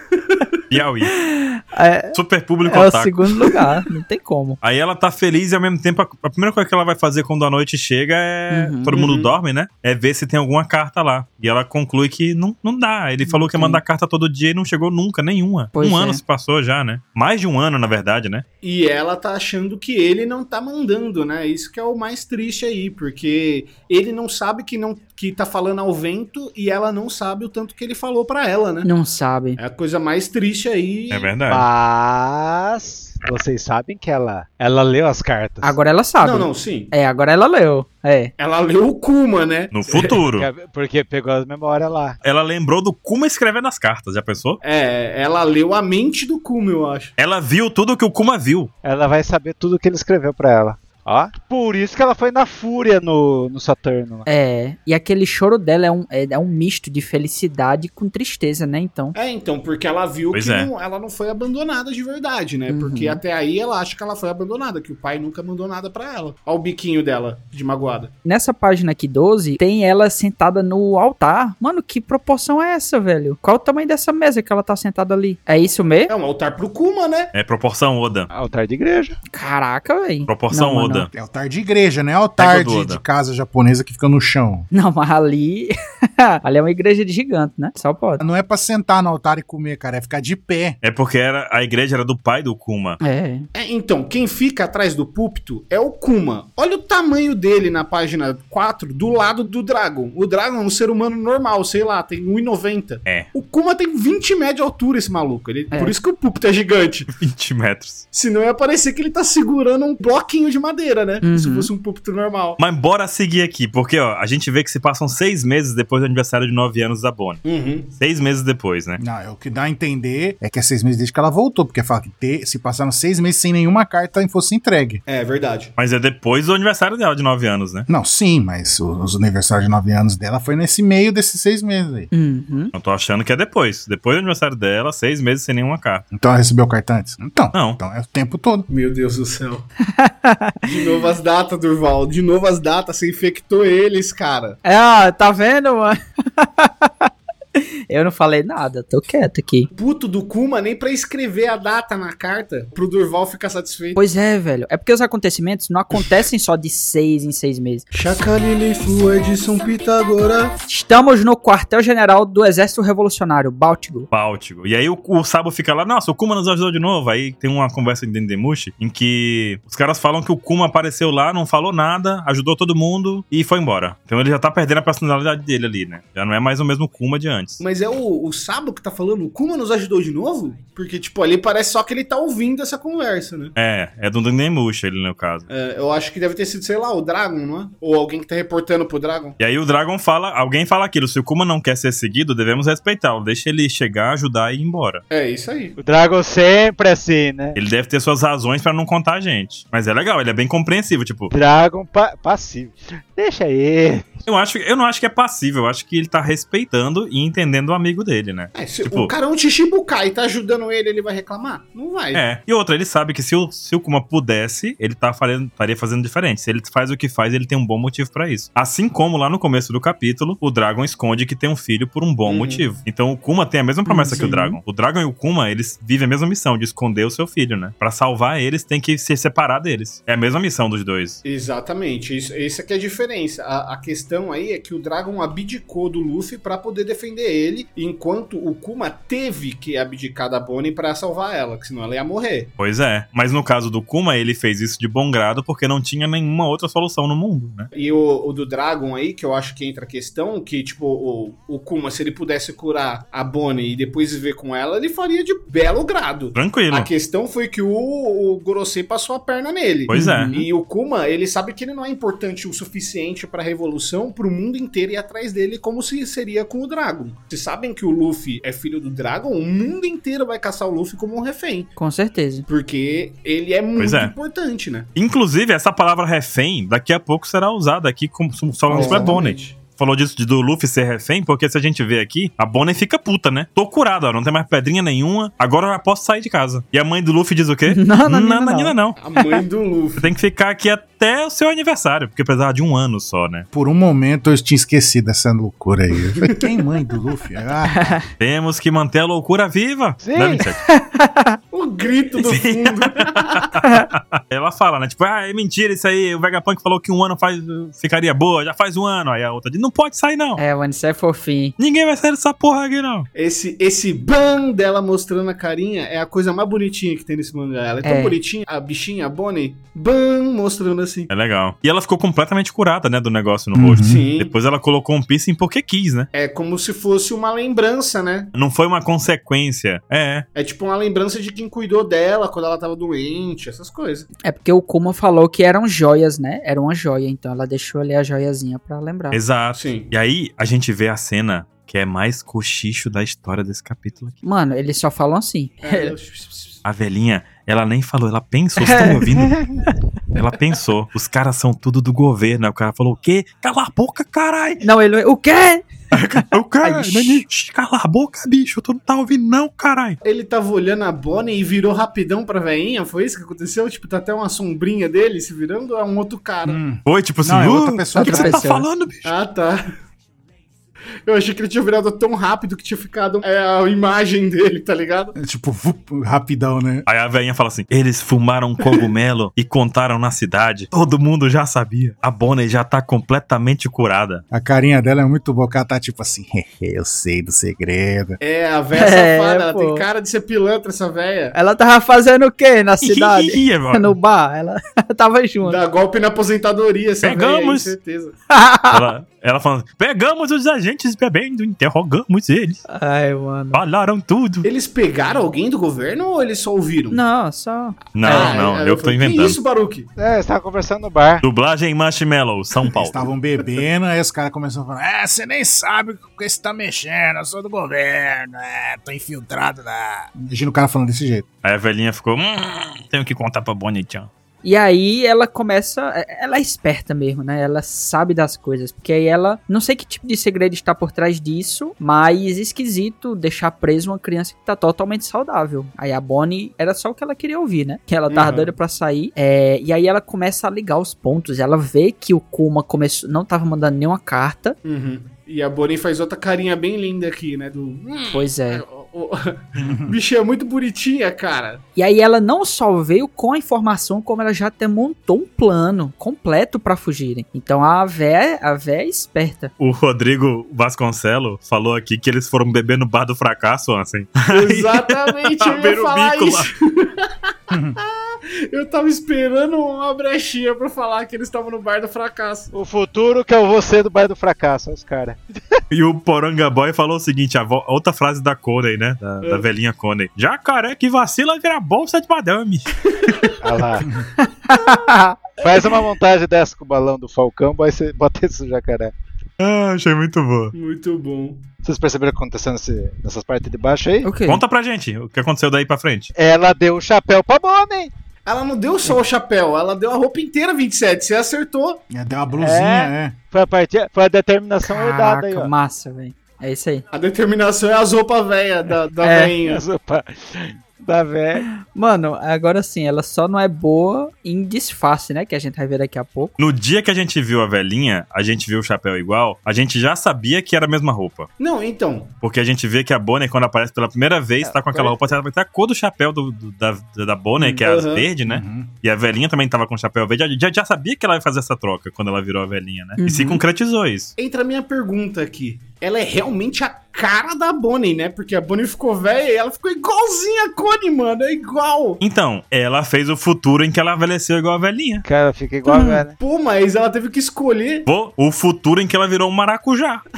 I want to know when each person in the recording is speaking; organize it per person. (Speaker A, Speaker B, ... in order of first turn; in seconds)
Speaker A: 0.1-0.5, 8.9-9.3, 18.6-28.9, 29.6-31.3, 36.2-36.9, 38.4-40.2, 44.6-47.1, 59.1-68.1, 76.1-77.3, 93.5-107.1, 108.1-112.6, 117.5-117.9, 125.0-125.7, 138.7-139.7, 140.6-144.6, 149.7-154.0, 157.9-160.5, 177.6-183.5, 185.5-189.4, 195.1-195.8, 208.5-212.2, 222.2-222.7, 231.2-242.5, 247.7-271.7, 272.5-274.9, 278.7-279.6, 289.0-290.1, 301.5-303.5, 313.1-321.1, 323.8-324.3, 326.1-328.3, 330.3-334.1, 339.5-339.9, 345.6-346.6, 360.0-366.6, 369.0-369.7, 371.1-375.1, 388.2-391.3, 395.4-398.1, 404.4-407.0, 408.0-409.9, 438.1-438.5, 444.6-451.6, 464.3-472.5, 482.9-483.4, 490.6-491.4, 498.2-501.8, 506.9-509.6, 521.4-522.1, 527.6-528.1, 534.2-542.0, 546.2-547.9
Speaker B: 0.7-1.1, 2.1-3.3, 4.6-18.4, 31.1-31.7, 39.7-40.5, 42.2-44.6, 47.2-48.7, 60.3-60.7, 77.3-78.3, 80.3-81.1, 82.4-83.0, 90.8-93.0, 107.1-108.0, 112.6-117.5, 118.0-119.0, 125.8-127.9, 132.7-136.0, 137.5-137.8, 164.1-177.6, 183.6-185.5, 189.4-195.0, 197.6-201.3, 204.2-209.1, 212.1-231.2, 242.6-247.7, 256.3-256.9, 259.9-260.3, 273.8-274.1, 275.0-289.0, 290.0-293.5, 298.2-300.6, 302.2-310.4, 311.6-313.1, 321.1-326.1, 328.3-330.2, 339.1-344.2, 346.6-349.4, 350.1-354.6, 355.9-360.0, 366.8-369.1, 376.9-384.2, 392.8-393.9, 397.0-397.8, 398.7-402.6, 403.5-404.5, 407.9-409.4, 411.2-412.9, 421.4-424.1, 459.6-466.5, 475.7-482.7, 489.4-490.5, 494.2-496.1, 516.4-521.3, 522.2-534.1, 542.0-545.0, 547.9-550.0
Speaker C: 1.1-4.6, 8.5-9.0, 13.2-13.8, 15.7-16.2, 28.8-29.6, 35.6-38.3, 54.3-59.1, 62.7-63.2, 68.2-76.1, 79.3-81.1, 84.7-88.2, 93.0-93.5, 111.2-111.7, 132.1-132.7, 139.9-140.6, 144.6-149.7, 154.0-157.9, 160.7-164.1, 223.9-224.6, 259.9-260.5, 271.8-272.5, 278.7-279.2, 287.7-288.8, 297.7-298.0, 300.7-301.4, 303.6-303.9, 310.4-311.5, 317.8-318.2, 334.2-339.2, 344.2-345.9, 348.6-349.3, 354.6-357.2, 368.0-368.7, 388.8-389.9, 391.3-395.6, 398.3-398.9, 402.7-403.6, 406.9-408.4, 424.4-444.6, 448.1-448.6, 451.8-459.5, 484.2-485.0, 494.0-494.4, 504.6-506.8, 509.0-509.3, 511.3-516.3, 533.0-533.4, 545.7-546.0
Speaker D: 31.5-35.8, 40.3-42.2, 48.8-54.3, 78.3-79.2, 195.8-197.6, 201.3-204.2, 300.0-300.5, 349.3-349.7, 410.0-411.2, 472.5-475.6, 483.4-483.9, 485.4-488.9, 491.6-494.1, 496.1-497.9, 502.4-505.5, 509.4-511.5, 524.5-525.0, 545.0-546.2
Speaker E: 81.1-84.7, 88.2-90.8, 119.0-125.0, 127.9-132.1, 136.1-138.7, 293.5-297.9, 323.5-324.0, 366.4-368.4, 375.1-376.9, 384.3-388.2, 412.7-421.2, 449.5-450.0, 467.5-467.8, 501.9-503.2, 528.2-528.7